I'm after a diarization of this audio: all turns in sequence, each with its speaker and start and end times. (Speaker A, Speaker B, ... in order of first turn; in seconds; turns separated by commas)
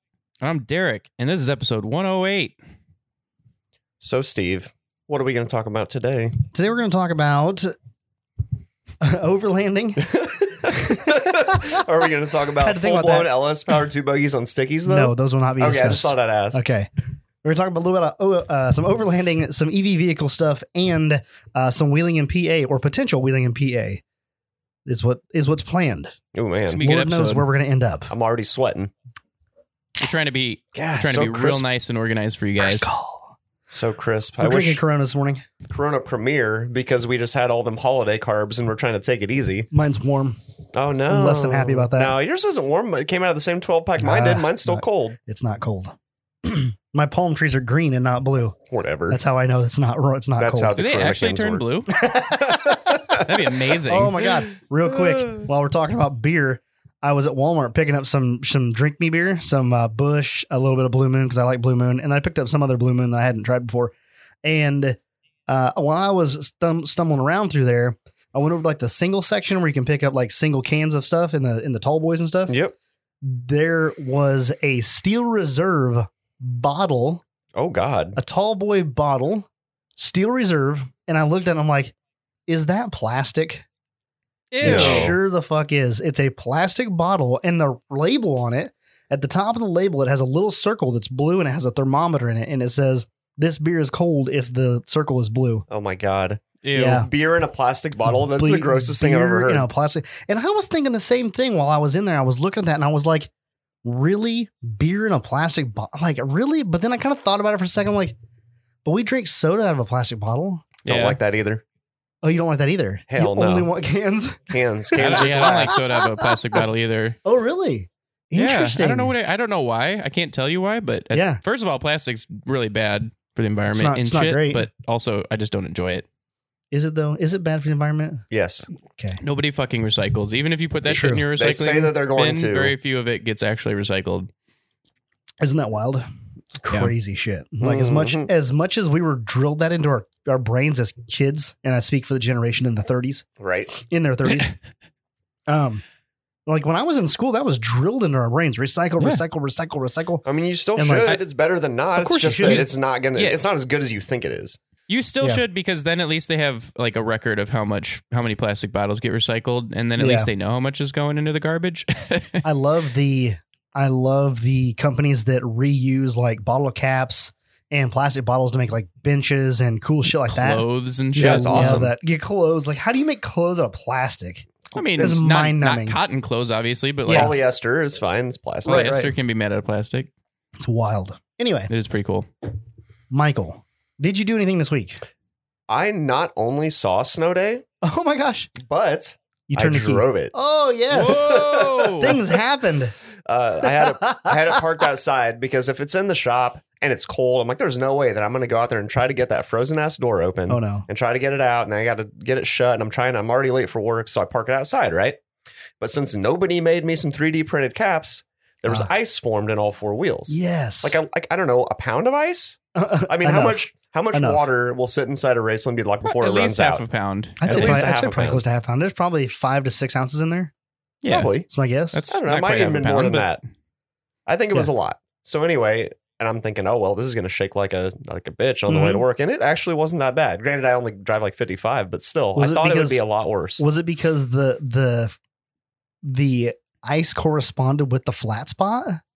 Speaker A: 0.4-2.6, Speaker B: 4.0-6.4, Speaker C: 6.5-7.7, Speaker C: 9.0-10.1, Speaker B: 10.0-16.6, Speaker C: 10.6-11.8, Speaker C: 12.6-13.3, Speaker C: 14.9-16.9, Speaker C: 17.4-24.0, Speaker C: 24.9-26.1, Speaker B: 26.3-26.8, Speaker A: 26.7-27.5, Speaker C: 26.8-28.1, Speaker B: 28.1-28.9, Speaker A: 30.0-32.9, Speaker B: 30.8-31.6, Speaker C: 32.6-33.4, Speaker B: 33.7-34.8, Speaker C: 34.4-35.5, Speaker B: 35.7-39.7, Speaker C: 39.7-40.4, Speaker B: 40.7-45.2, Speaker C: 41.1-42.2, Speaker C: 44.0-48.6, Speaker B: 48.7-49.2, Speaker C: 49.1-50.8, Speaker B: 50.4-51.6, Speaker A: 50.8-51.9, Speaker C: 51.9-53.2, Speaker B: 52.6-53.2, Speaker A: 53.1-54.2, Speaker C: 53.9-63.9, Speaker B: 55.0-55.5, Speaker C: 64.4-72.5, Speaker B: 72.5-72.8, Speaker C: 73.2-77.2, Speaker B: 77.5-78.2, Speaker C: 78.2-82.0, Speaker C: 82.5-83.7, Speaker A: 84.5-85.1, Speaker C: 84.6-95.7, Speaker B: 84.6-85.2, Speaker B: 95.7-99.7, Speaker A: 96.6-97.1, Speaker C: 96.7-97.1, Speaker C: 98.3-103.3, Speaker C: 103.8-108.2, Speaker C: 108.8-110.7, Speaker A: 110.8-111.2, Speaker B: 110.9-111.6, Speaker C: 112.2-116.1, Speaker B: 113.1-113.7, Speaker B: 114.5-115.9, Speaker A: 115.0-117.2, Speaker C: 117.2-119.1, Speaker A: 118.3-126.1, Speaker C: 121.1-121.4, Speaker C: 123.7-124.7, Speaker C: 126.7-128.3, Speaker B: 128.3-128.7, Speaker C: 128.9-129.2, Speaker A: 129.2-134.3, Speaker C: 130.9-131.3, Speaker B: 131.3-132.8, Speaker C: 135.4-136.0, Speaker C: 136.6-144.5, Speaker B: 137.6-138.3, Speaker B: 143.4-143.7, Speaker C: 145.5-145.8, Speaker C: 146.5-150.2, Speaker B: 150.2-154.6, Speaker C: 150.8-151.2, Speaker C: 151.9-152.7, Speaker A: 152.5-153.4, Speaker A: 154.9-162.4, Speaker C: 160.0-160.3, Speaker C: 162.4-176.0, Speaker A: 170.3-171.9, Speaker B: 171.2-171.9, Speaker A: 174.7-177.4, Speaker C: 177.1-177.3, Speaker B: 177.1-178.9, Speaker C: 178.7-179.2, Speaker A: 178.7-180.1, Speaker C: 180.6-181.7, Speaker A: 181.7-182.3, Speaker C: 183.1-185.0, Speaker B: 185.7-187.6, Speaker C: 187.8-188.5, Speaker B: 188.6-190.3, Speaker C: 189.5-191.4, Speaker A: 190.9-192.2, Speaker B: 191.0-192.2, Speaker C: 192.0-192.9, Speaker B: 193.3-205.2, Speaker C: 193.6-194.6, Speaker C: 200.5-200.9, Speaker B: 205.8-216.8, Speaker C: 208.7-208.9, Speaker C: 210.3-211.0, Speaker C: 212.8-214.5, Speaker A: 216.1-217.8, Speaker C: 217.4-220.5, Speaker B: 217.4-218.4, Speaker A: 221.0-221.3, Speaker B: 221.1-221.5, Speaker C: 221.5-222.0, Speaker A: 221.9-223.4, Speaker B: 222.1-223.4, Speaker B: 224.3-233.6, Speaker C: 228.7-229.1, Speaker C: 232.4-233.0, Speaker C: 233.6-235.2, Speaker C: 236.0-239.0